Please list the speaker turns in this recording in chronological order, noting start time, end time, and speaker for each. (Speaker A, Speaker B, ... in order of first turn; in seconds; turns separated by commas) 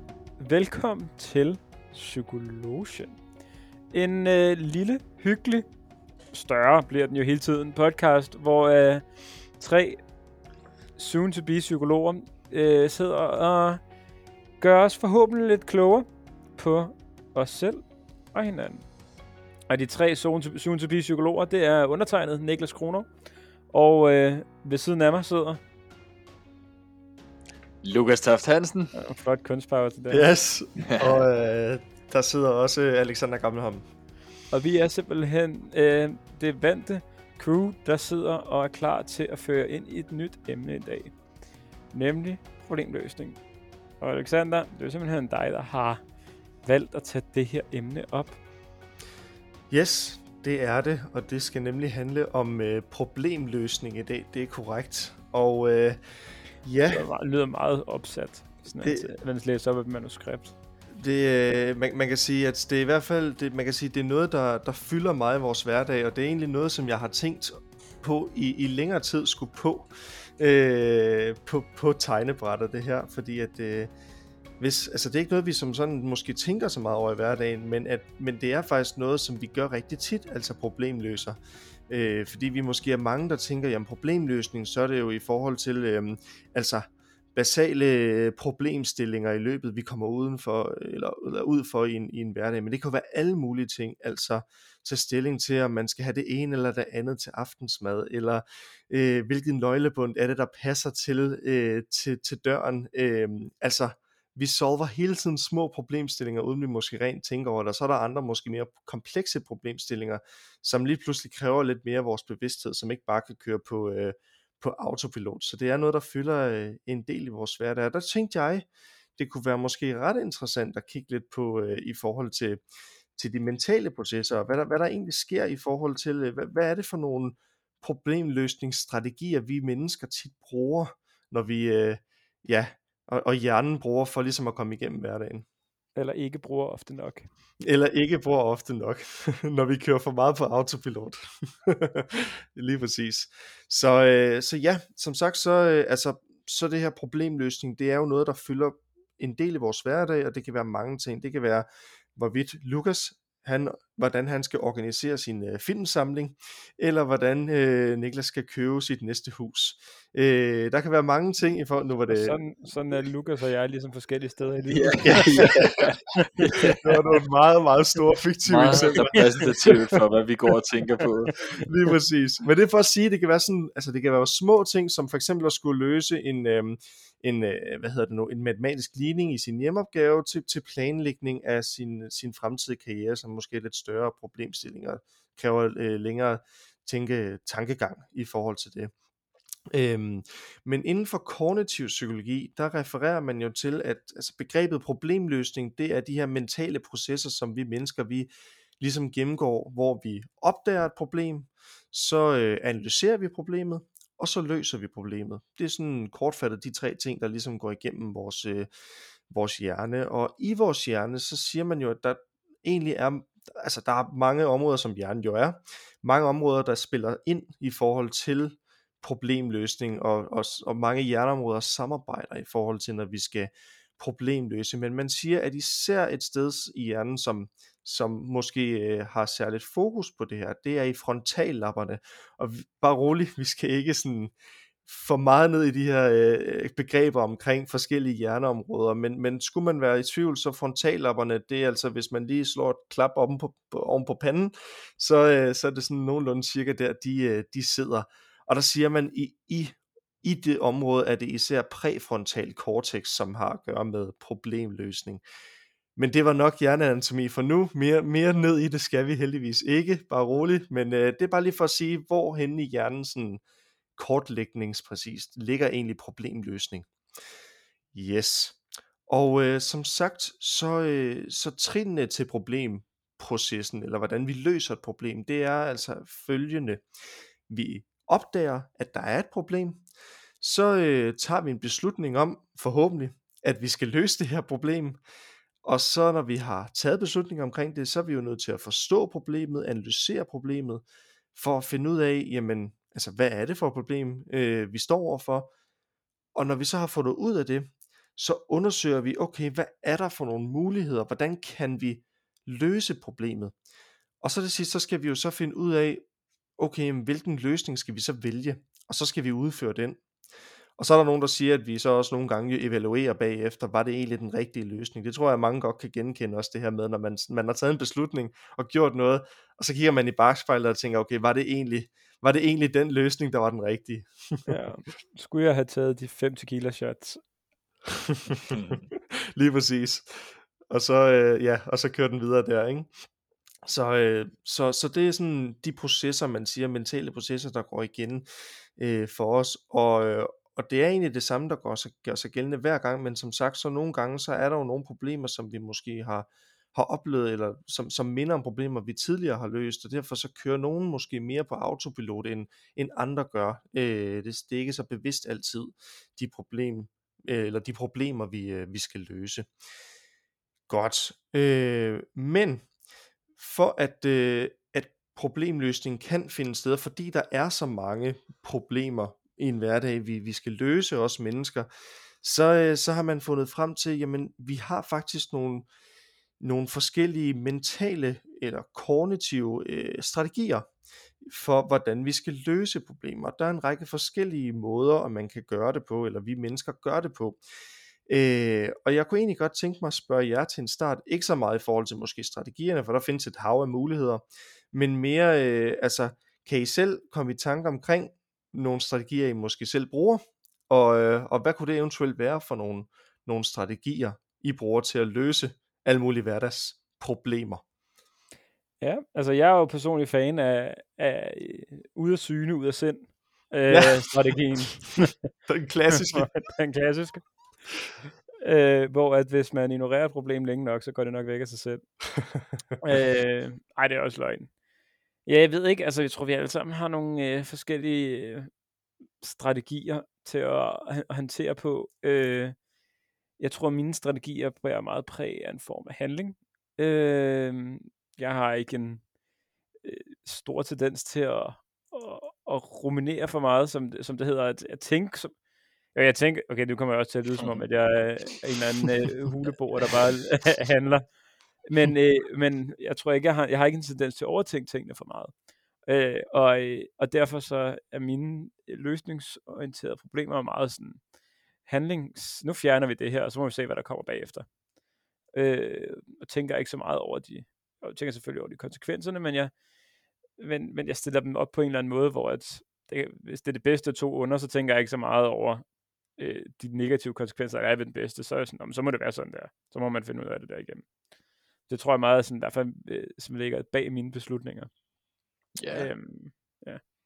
Speaker A: 0.4-3.2, Speaker A: 3.9-5.7, Speaker A: 6.3-9.1, Speaker A: 9.6-10.0, Speaker A: 11.0-13.8, Speaker A: 14.6-16.1, Speaker A: 16.6-17.8, Speaker A: 18.3-18.9, Speaker A: 19.7-23.1, Speaker A: 23.7-25.6, Speaker B: 27.8-28.9, Speaker A: 28.9-30.3, Speaker C: 30.1-33.9, Speaker B: 30.9-31.2, Speaker A: 34.5-41.2, Speaker A: 41.9-43.4, Speaker A: 44.0-46.0, Speaker A: 46.6-48.4, Speaker C: 49.7-56.0, Speaker C: 56.6-57.1, Speaker A: 56.9-60.5, Speaker C: 58.8-59.1, Speaker C: 61.0-73.9, Speaker C: 74.6-81.4, Speaker C: 81.9-122.6, Speaker C: 123.2-135.5, Speaker A: 136.0-137.3, Speaker C: 137.6-162.4, Speaker A: 162.1-166.8, Speaker B: 164.7-166.8, Speaker C: 165.1-165.8, Speaker C: 166.7-169.8, Speaker B: 168.5-171.5, Speaker A: 169.0-169.5, Speaker C: 171.5-188.9, Speaker C: 189.7-208.7, Speaker C: 209.3-234.3, Speaker C: 234.9-255.2, Speaker C: 256.0-263.4, Speaker C: 264.0-266.9, Speaker C: 267.9-276.9, Speaker C: 277.5-279.8, Speaker C: 280.4-285.0, Speaker C: 285.6-290.8, Speaker C: 291.4-295.5, Speaker C: 296.4-303.5, Speaker C: 304.2-306.1, Speaker C: 306.6-310.0, Speaker C: 310.8-324.6, Speaker A: 324.5-327.2, Speaker C: 328.3-332.9, Speaker B: 328.5-328.8, Speaker C: 333.7-359.5, Speaker C: 360.7-362.6, Speaker C: 363.4-371.7, Speaker C: 372.2-375.7, Speaker C: 376.4-380.7, Speaker C: 381.2-387.4, Speaker C: 388.1-407.6, Speaker A: 408.8-415.3, Speaker C: 413.7-414.0, Speaker C: 415.5-416.3, Speaker A: 416.0-417.4, Speaker A: 418.4-421.9, Speaker A: 422.8-424.5, Speaker A: 425.3-428.5, Speaker A: 429.2-432.6, Speaker A: 433.4-439.1, Speaker A: 439.8-445.4, Speaker A: 445.9-455.3, Speaker A: 455.9-461.0, Speaker A: 461.6-464.5, Speaker A: 465.3-469.5, Speaker A: 470.4-475.6, Speaker A: 476.2-480.9, Speaker A: 481.7-484.7, Speaker B: 485.6-485.9, Speaker A: 485.7-486.8